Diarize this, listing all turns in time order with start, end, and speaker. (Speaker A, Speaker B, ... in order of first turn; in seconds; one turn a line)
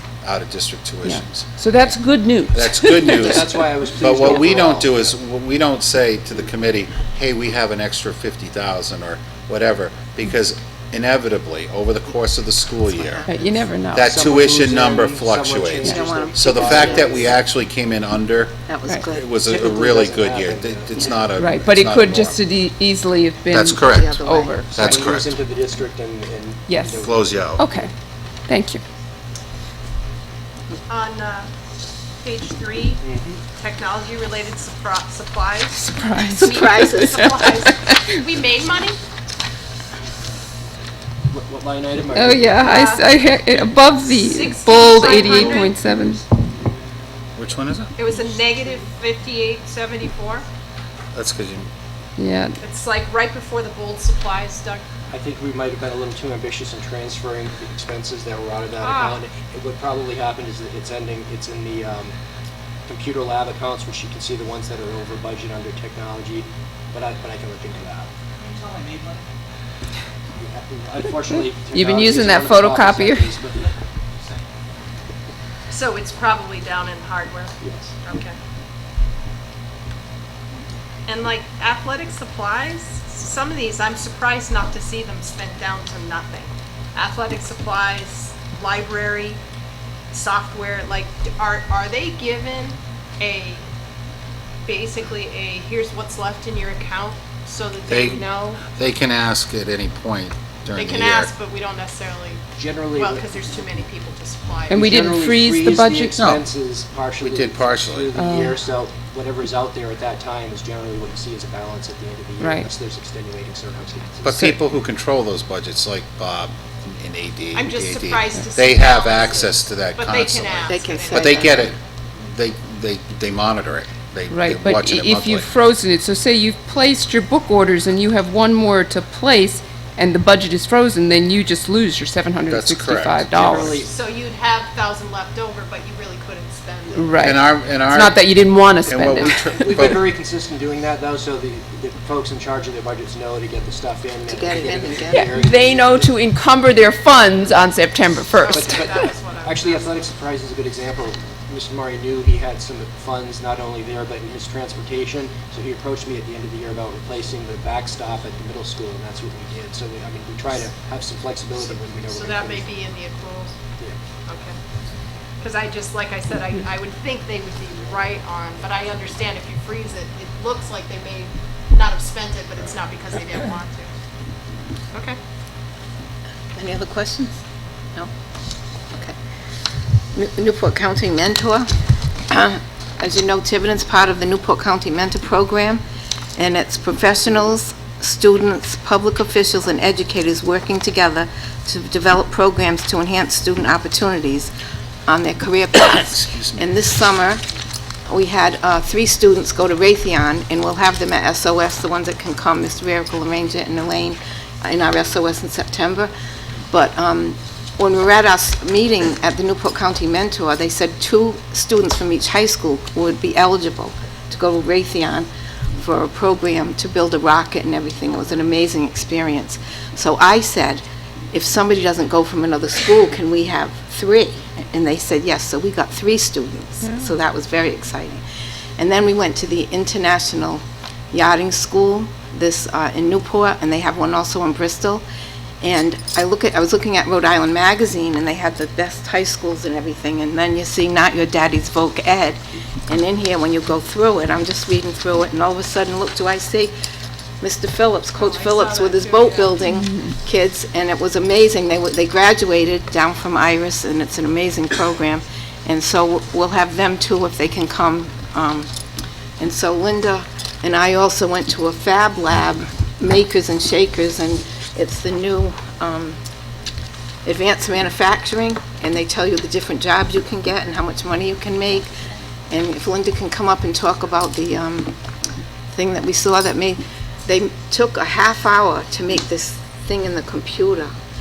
Speaker A: 0.2-2.0
Speaker B: 1.0-3.4
Speaker A: 2.5-13.2
Speaker C: 3.2-5.1
Speaker D: 12.9-13.7
Speaker B: 13.3-14.2
Speaker A: 13.9-22.4
Speaker C: 14.0-17.4
Speaker D: 15.8-17.4
Speaker D: 18.7-19.2
Speaker C: 19.4-21.3
Speaker B: 21.4-25.0
Speaker A: 23.5-24.2
Speaker D: 23.8-24.7
Speaker A: 24.7-25.3
Speaker C: 24.8-27.5
Speaker B: 26.7-27.0
Speaker A: 27.0-27.6
Speaker B: 27.6-27.9
Speaker B: 28.5-28.8
Speaker E: 30.9-31.5
Speaker E: 32.2-33.0
Speaker C: 33.0-33.4
Speaker E: 33.5-39.0
Speaker B: 35.8-38.0
Speaker D: 36.3-37.2
Speaker C: 41.2-42.6
Speaker B: 42.1-46.2
Speaker E: 42.6-45.7
Speaker A: 47.4-47.9
Speaker E: 48.0-50.5
Speaker A: 51.1-51.7
Speaker B: 52.2-52.5
Speaker E: 52.6-54.8
Speaker C: 55.1-62.1
Speaker E: 58.8-59.2
Speaker C: 62.9-68.1
Speaker C: 70.3-73.7
Speaker B: 71.7-73.3
Speaker E: 75.7-78.3
Speaker C: 77.6-77.9
Speaker E: 81.1-89.4
Speaker E: 90.1-93.6
Speaker E: 94.7-98.6
Speaker A: 97.9-101.3
Speaker E: 100.7-102.4
Speaker C: 102.5-103.6
Speaker E: 102.9-105.1
Speaker B: 104.7-106.2
Speaker C: 104.7-114.5
Speaker A: 106.2-106.4
Speaker A: 107.2-108.1
Speaker B: 108.1-108.6
Speaker B: 112.4-112.7
Speaker A: 114.2-125.5
Speaker E: 117.5-121.7
Speaker D: 120.7-121.7
Speaker B: 124.3-133.8
Speaker A: 132.5-133.8
Speaker C: 133.3-133.9
Speaker E: 133.8-137.2
Speaker B: 136.9-139.6
Speaker A: 137.2-138.2
Speaker A: 138.9-140.1
Speaker C: 139.4-146.2
Speaker D: 144.3-145.3
Speaker B: 145.1-149.0
Speaker E: 148.3-149.8
Speaker C: 148.5-162.7
Speaker E: 162.1-163.6
Speaker E: 164.2-164.6
Speaker E: 165.4-173.9
Speaker E: 174.9-175.2
Speaker D: 176.5-177.3
Speaker D: 180.1-181.7
Speaker D: 182.3-185.8
Speaker D: 186.4-194.5
Speaker D: 195.1-197.4
Speaker A: 195.9-196.7
Speaker D: 198.1-206.1
Speaker D: 206.7-228.2
Speaker D: 228.8-235.0
Speaker D: 235.6-246.7
Speaker D: 247.4-258.7
Speaker E: 248.2-249.5
Speaker B: 249.6-250.0
Speaker D: 259.4-266.2
Speaker D: 267.2-271.9
Speaker D: 272.5-274.9
Speaker D: 275.7-280.9